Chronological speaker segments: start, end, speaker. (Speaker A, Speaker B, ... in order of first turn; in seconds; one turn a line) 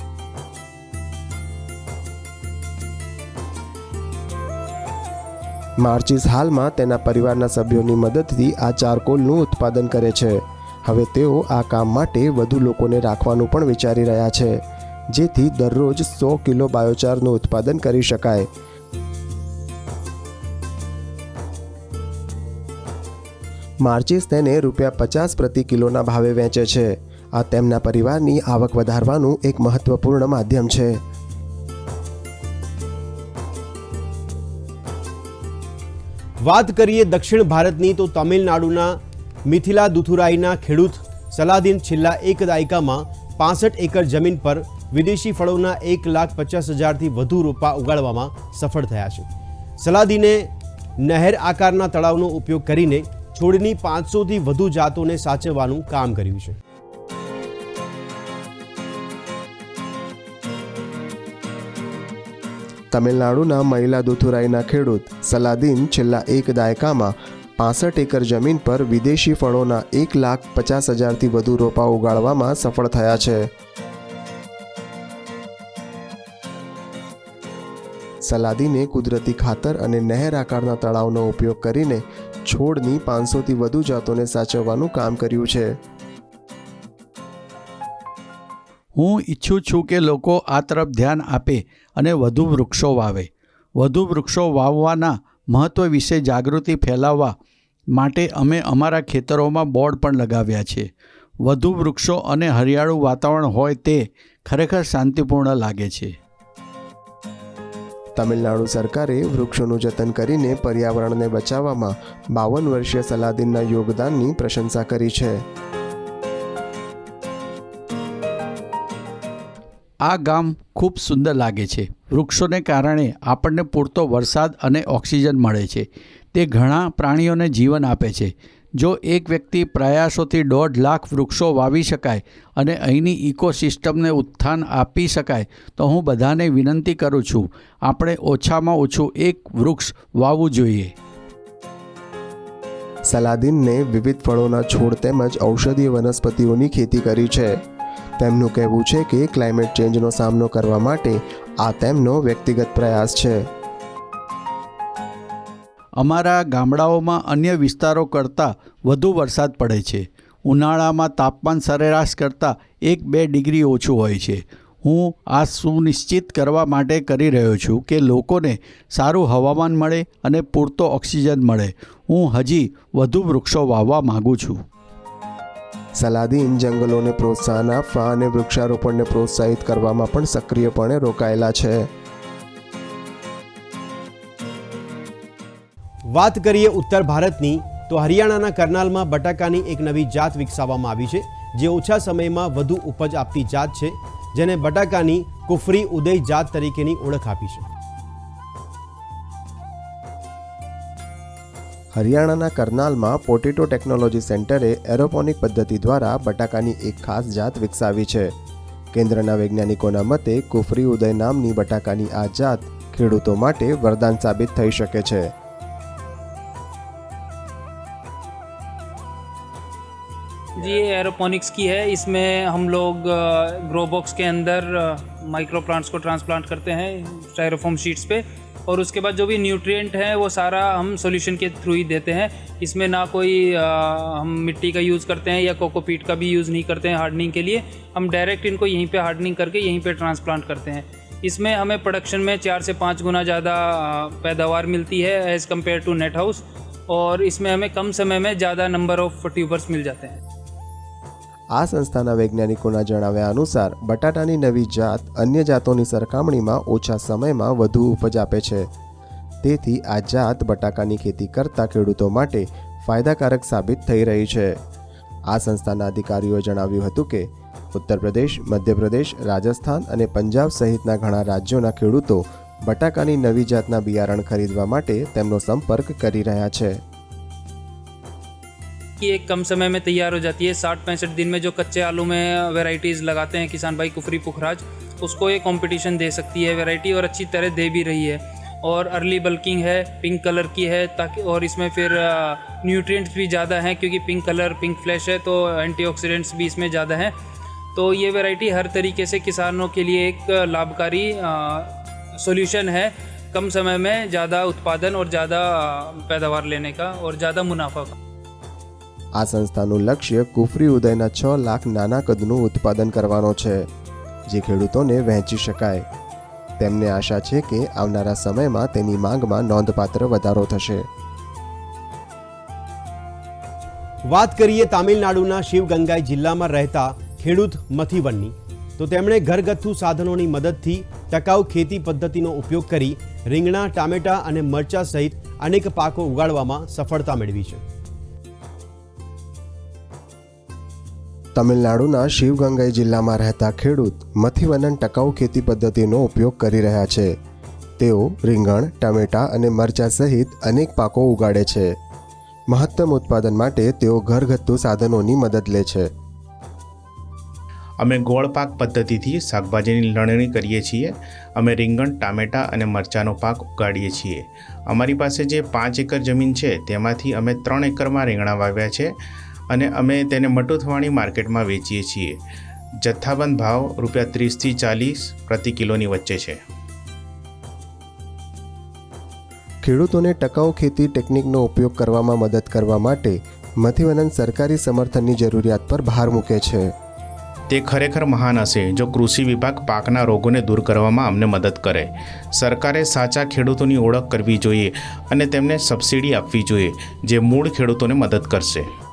Speaker A: 5.8-18.5
Speaker A: 23.8-31.0
Speaker B: 36.4-49.3
Speaker B: 49.8-50.5
Speaker B: 51.0-56.6
Speaker A: 62.9-73.5
Speaker A: 78.2-85.8
Speaker C: 88.9-97.3
Speaker C: 97.9-100.9
Speaker C: 101.5-106.1
Speaker A: 108.2-115.4
Speaker C: 120.0-140.9
Speaker A: 143.1-147.6
Speaker A: 148.2-153.5
Speaker C: 156.0-174.6
Speaker A: 176.0-181.9
Speaker B: 186.1-197.7
Speaker A: 201.9-208.3
Speaker A: 208.9-215.3
Speaker D: 220.6-250.2
Speaker A: 251.5-258.7
Speaker A: 259.4-264.6
Speaker A: 265.3-276.8
Speaker D: 279.0-297.1
Speaker D: 297.7-307.9
Speaker A: 309.2-313.7
Speaker A: 314.3-315.9
Speaker A: 316.6-320.9
Speaker B: 324.1-337.6
Speaker A: 341.3-347.1
Speaker A: 347.8-351.7
Speaker A: 352.5-355.9
Speaker E: 357.8-368.9
Speaker E: 369.5-372.2
Speaker E: 372.8-376.4
Speaker A: 379.6-386.7
Speaker E: 387.5-398.7